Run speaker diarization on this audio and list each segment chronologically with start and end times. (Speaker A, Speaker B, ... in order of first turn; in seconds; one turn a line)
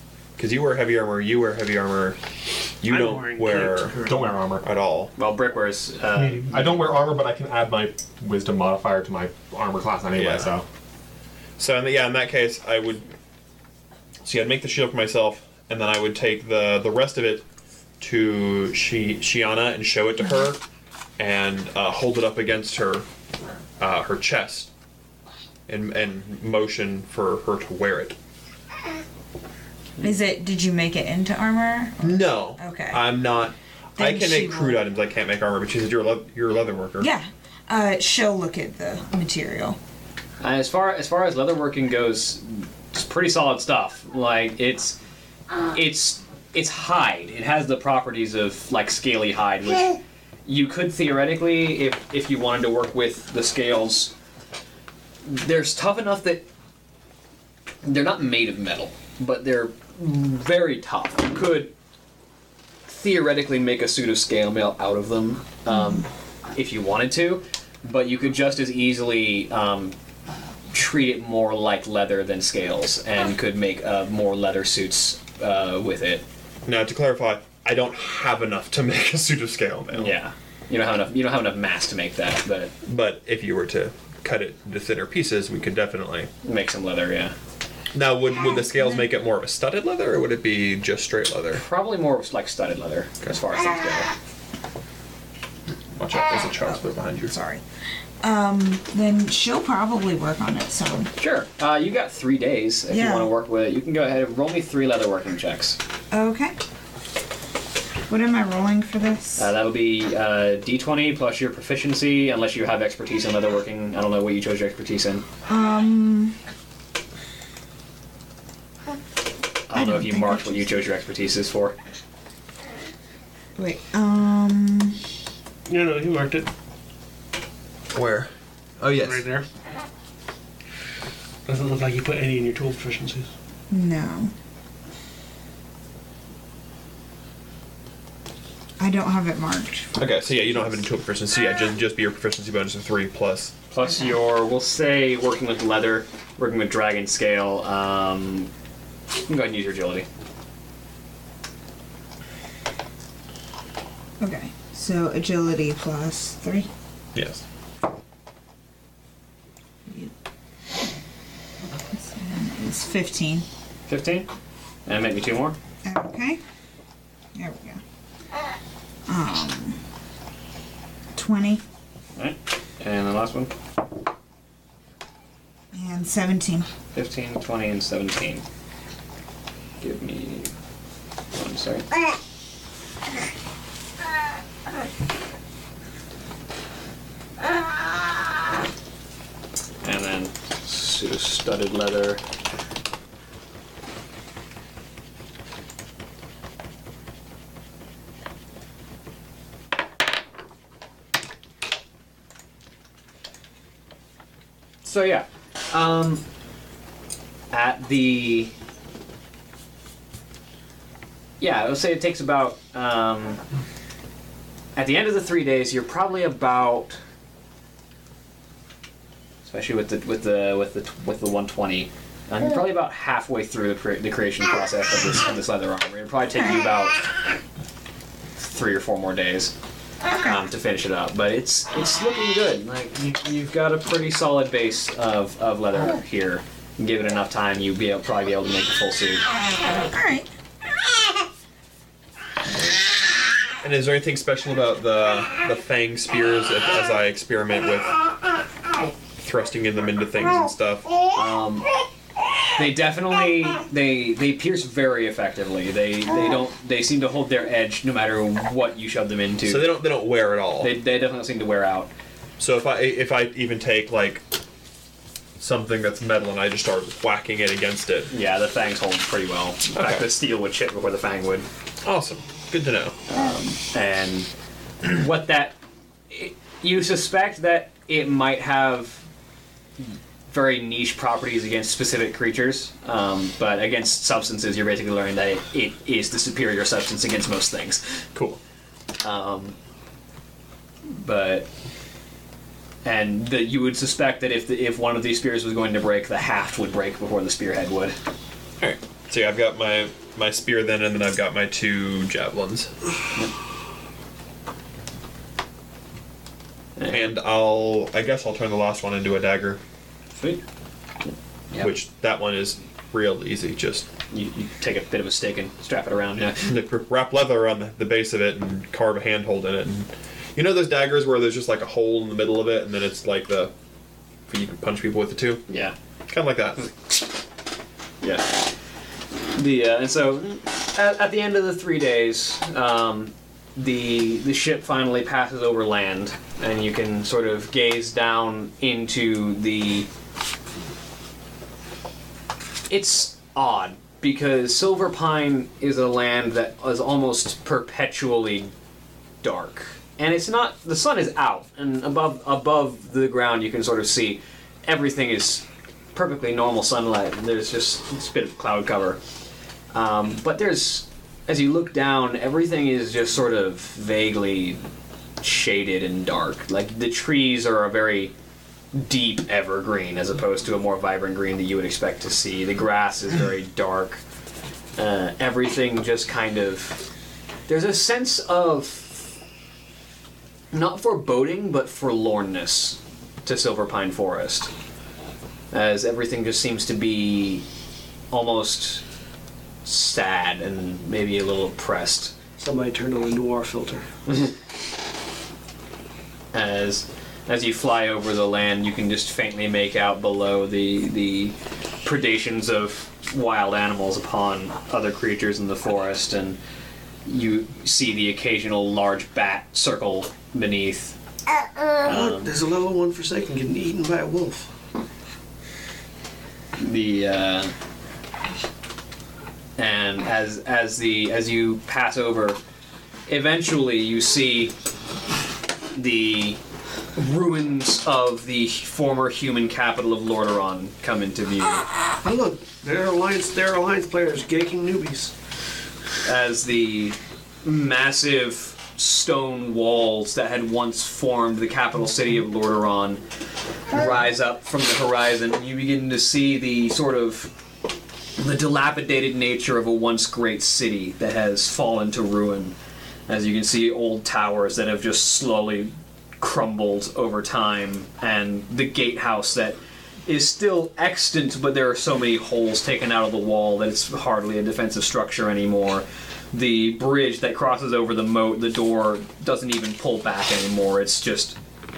Speaker A: 0.4-2.2
Speaker A: 2.8-5.1
Speaker B: 2.9-4.3
Speaker C: 4.0-4.7
Speaker D: 5.2-7.0
Speaker C: 6.2-10.6
Speaker A: 10.1-10.5
Speaker A: 11.6-13.1
Speaker A: 14.2-17.4
Speaker A: 18.0-20.6
Speaker A: 21.2-23.1
Speaker A: 23.8-24.7
Speaker A: 25.7-28.1
Speaker E: 30.0-33.1
Speaker A: 32.0-37.1
Speaker E: 34.0-34.8
Speaker E: 37.0-39.8
Speaker D: 40.4-45.0
Speaker D: 45.7-54.1
Speaker D: 55.2-56.5
Speaker D: 57.8-61.7
Speaker D: 62.9-66.0
Speaker E: 65.7-66.1
Speaker D: 66.5-69.9
Speaker D: 70.7-76.2
Speaker A: 76.6-80.2
Speaker D: 79.9-82.7
Speaker A: 82.8-86.3
Speaker D: 86.4-87.3
Speaker A: 87.9-91.6
Speaker D: 91.5-94.1
Speaker A: 95.9-97.3
Speaker E: 96.6-97.6
Speaker E: 98.2-101.1
Speaker D: 101.2-105.8
Speaker E: 102.9-103.3
Speaker E: 106.1-106.5
Speaker E: 108.1-109.5
Speaker D: 109.4-115.2
Speaker E: 115.5-116.4
Speaker D: 119.7-121.8
Speaker E: 119.7-120.7
Speaker E: 123.6-125.0
Speaker B: 125.7-126.5
Speaker A: 127.9-129.2
Speaker B: 129.0-129.4
Speaker B: 131.4-133.3
Speaker E: 133.7-134.3
Speaker E: 138.8-139.9
Speaker A: 139.9-143.5
Speaker D: 143.7-148.5
Speaker D: 149.2-150.1
Speaker E: 154.2-156.7
Speaker A: 157.1-157.4
Speaker E: 159.9-160.1
Speaker E: 161.7-163.4
Speaker D: 163.9-164.3
Speaker D: 164.8-165.6
Speaker E: 165.8-166.4
Speaker E: 167.3-167.8
Speaker E: 169.1-169.8
Speaker E: 171.1-171.6
Speaker D: 172.2-173.5
Speaker E: 175.7-176.7
Speaker D: 176.9-178.4
Speaker D: 179.8-180.5
Speaker D: 181.3-181.8
Speaker D: 189.8-192.2
Speaker D: 204.8-206.2
Speaker D: 207.5-208.5
Speaker D: 211.4-213.4
Speaker D: 214.8-217.0
Speaker D: 219.4-227.1
Speaker D: 228.4-229.5
Speaker E: 230.1-230.4
Speaker D: 230.1-239.2
Speaker E: 239.8-240.3
Speaker A: 243.6-247.9
Speaker A: 249.2-250.9
Speaker D: 251.1-251.7
Speaker D: 252.6-259.8
Speaker A: 259.4-260.7
Speaker D: 260.6-261.9
Speaker A: 262.4-264.2
Speaker A: 265.4-268.1
Speaker D: 268.1-271.5
Speaker A: 269.7-270.1
Speaker A: 271.8-273.0
Speaker D: 273.1-274.3
Speaker D: 274.8-275.6
Speaker D: 276.1-279.0
Speaker D: 279.8-288.1
Speaker A: 288.1-288.4
Speaker D: 289.0-289.5
Speaker D: 290.9-291.5
Speaker D: 292.8-298.0
Speaker A: 298.6-302.8
Speaker D: 306.8-307.1
Speaker A: 306.9-309.6
Speaker D: 310.1-310.4
Speaker A: 311.6-313.9
Speaker D: 314.1-316.5
Speaker A: 316.5-323.5
Speaker A: 324.3-325.4
Speaker D: 325.5-325.8
Speaker A: 326.1-326.7
Speaker D: 326.6-326.9
Speaker D: 328.0-328.5
Speaker D: 329.3-339.9
Speaker D: 342.7-348.5
Speaker D: 349.2-359.0
Speaker D: 359.7-364.6
Speaker D: 365.2-368.1
Speaker D: 368.7-374.0
Speaker D: 374.8-376.9
Speaker D: 377.5-379.1
Speaker D: 380.5-384.5
Speaker D: 385.5-387.4
Speaker D: 388.1-388.8
Speaker D: 389.6-392.1
Speaker B: 392.4-393.9
Speaker D: 396.3-406.4
Speaker D: 407.0-411.0
Speaker D: 411.8-412.3
Speaker B: 411.9-414.5
Speaker D: 416.6-417.5
Speaker D: 419.6-422.4
Speaker D: 423.1-424.5
Speaker D: 425.7-426.4
Speaker D: 426.9-431.7
Speaker B: 432.0-435.1
Speaker D: 436.0-443.0
Speaker D: 443.7-447.3
Speaker D: 448.2-452.5
Speaker D: 453.1-471.4